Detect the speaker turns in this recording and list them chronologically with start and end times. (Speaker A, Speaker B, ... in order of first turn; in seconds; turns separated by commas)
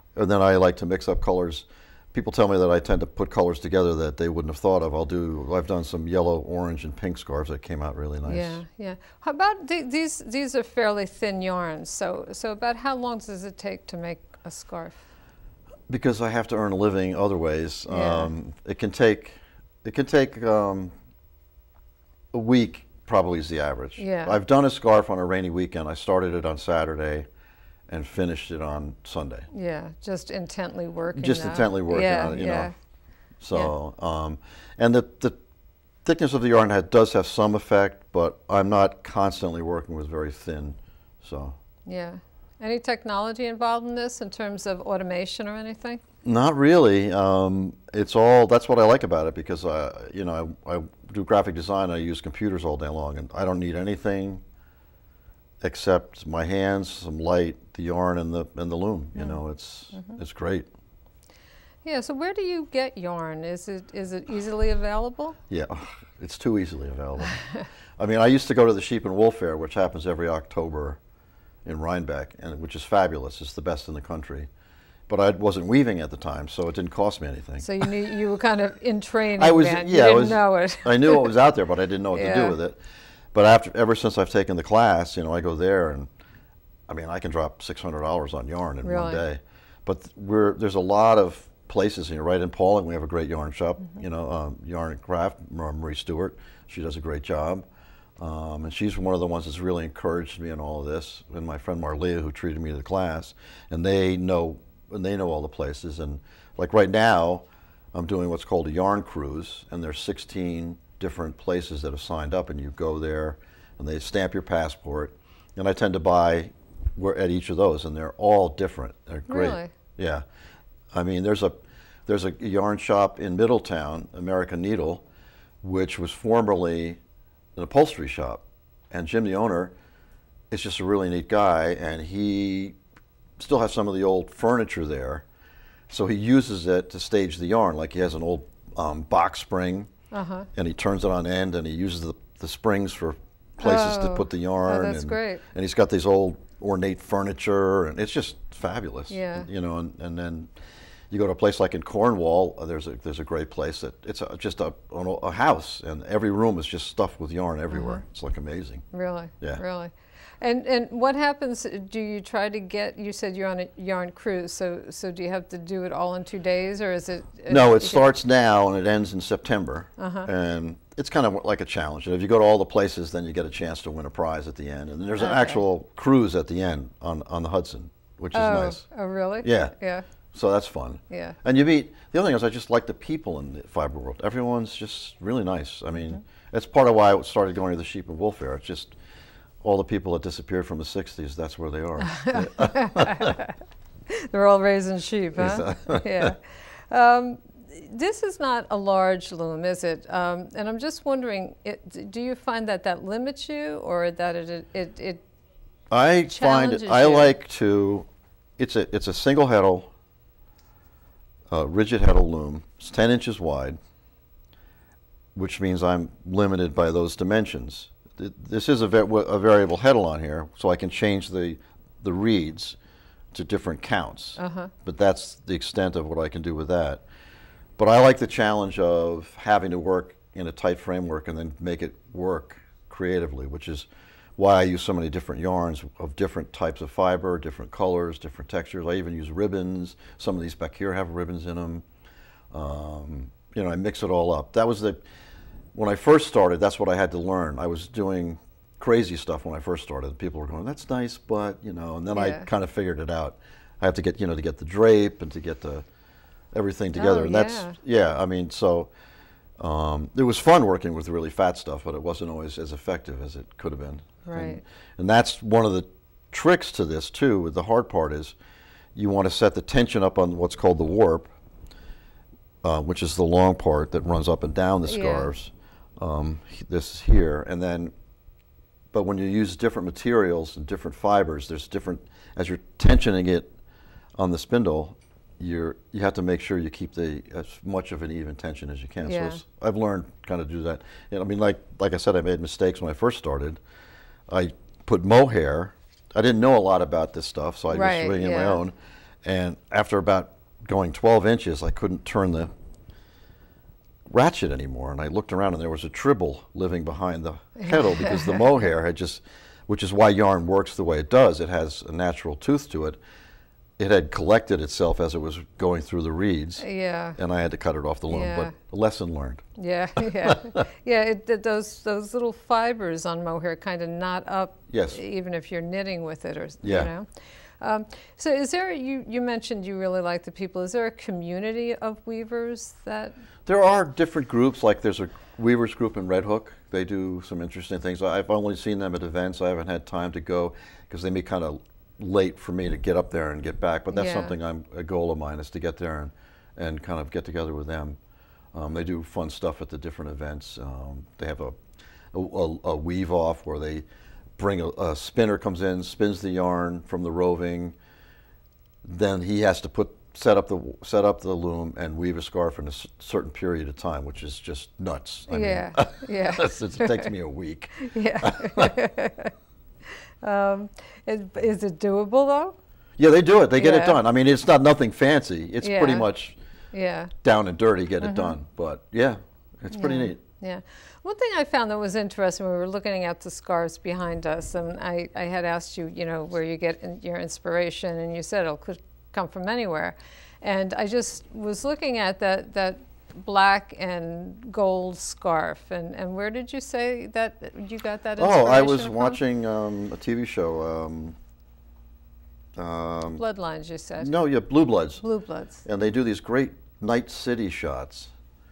Speaker A: 0.1-8.6, Speaker B: 8.3-15.1, Speaker A: 15.9-20.9, Speaker B: 17.9-18.3, Speaker A: 22.3-27.3, Speaker B: 24.0-24.4, Speaker A: 27.9-29.5, Speaker B: 29.5-32.7, Speaker A: 31.1-32.7, Speaker A: 33.4-35.4, Speaker A: 36.0-41.6, Speaker B: 41.9-46.0, Speaker A: 46.2-54.4, Speaker A: 55.6-60.7, Speaker B: 61.8-65.4, Speaker A: 65.5-67.4, Speaker B: 67.2-67.6, Speaker A: 68.0-71.0, Speaker A: 71.7-74.5, Speaker A: 75.1-78.2, Speaker B: 77.6-81.3, Speaker A: 79.4-82.8, Speaker B: 82.1-82.6, Speaker A: 83.3-86.1, Speaker A: 86.9-97.7, Speaker B: 88.8-89.2, Speaker A: 98.2-120.2, Speaker B: 119.3-119.7, Speaker A: 120.9-125.0, Speaker A: 125.6-127.0, Speaker A: 127.6-129.7, Speaker A: 130.5-132.8, Speaker A: 133.4-135.2, Speaker A: 135.9-139.9, Speaker B: 140.1-140.5, Speaker A: 140.6-150.5, Speaker B: 143.6-145.4, Speaker B: 149.1-149.5, Speaker A: 151.1-158.8, Speaker B: 157.7-158.0, Speaker B: 158.9-168.1, Speaker A: 167.5-178.8, Speaker B: 170.0-170.3, Speaker B: 175.2-175.6, Speaker B: 178.3-180.1, Speaker A: 179.4-179.7, Speaker A: 180.3-188.9, Speaker B: 181.1-181.4, Speaker A: 189.6-193.4, Speaker B: 192.0-193.6, Speaker B: 194.1-205.2, Speaker A: 195.4-196.3, Speaker A: 205.9-208.1, Speaker B: 206.3-207.3, Speaker A: 208.6-209.9, Speaker A: 211.5-213.8, Speaker A: 215.3-222.8, Speaker A: 223.3-227.0, Speaker B: 224.4-224.7, Speaker A: 227.8-241.8, Speaker A: 242.5-245.0, Speaker A: 245.7-255.8, Speaker B: 252.1-252.5, Speaker A: 256.5-258.9, Speaker B: 256.9-257.8, Speaker A: 259.6-268.4, Speaker B: 264.3-264.6, Speaker A: 268.9-271.3, Speaker A: 272.6-277.9, Speaker B: 274.9-275.3, Speaker A: 278.9-283.5, Speaker A: 284.2-293.6, Speaker B: 289.0-289.4, Speaker A: 294.3-298.7, Speaker B: 297.7-298.6, Speaker A: 299.2-302.5, Speaker A: 304.1-313.0, Speaker B: 307.6-308.5, Speaker A: 313.8-316.7, Speaker B: 316.6-317.2, Speaker A: 317.2-319.4, Speaker B: 318.1-318.5, Speaker B: 319.6-333.1, Speaker A: 324.7-325.0, Speaker A: 326.6-326.9, Speaker A: 333.5-348.0, Speaker B: 343.9-344.4, Speaker A: 348.5-351.6, Speaker A: 352.1-353.9, Speaker A: 354.4-357.8, Speaker A: 358.8-368.7, Speaker B: 365.3-367.1, Speaker B: 367.8-369.3, Speaker B: 370.2-372.6, Speaker A: 373.0-376.4, Speaker B: 373.6-374.0, Speaker B: 375.6-376.1, Speaker B: 376.7-377.1, Speaker A: 377.2-380.2, Speaker B: 378.0-378.4, Speaker B: 379.7-399.2, Speaker A: 398.2-401.2, Speaker A: 402.6-403.2, Speaker B: 403.2-404.1, Speaker A: 404.0-405.0, Speaker B: 405.0-405.6, Speaker A: 405.6-408.1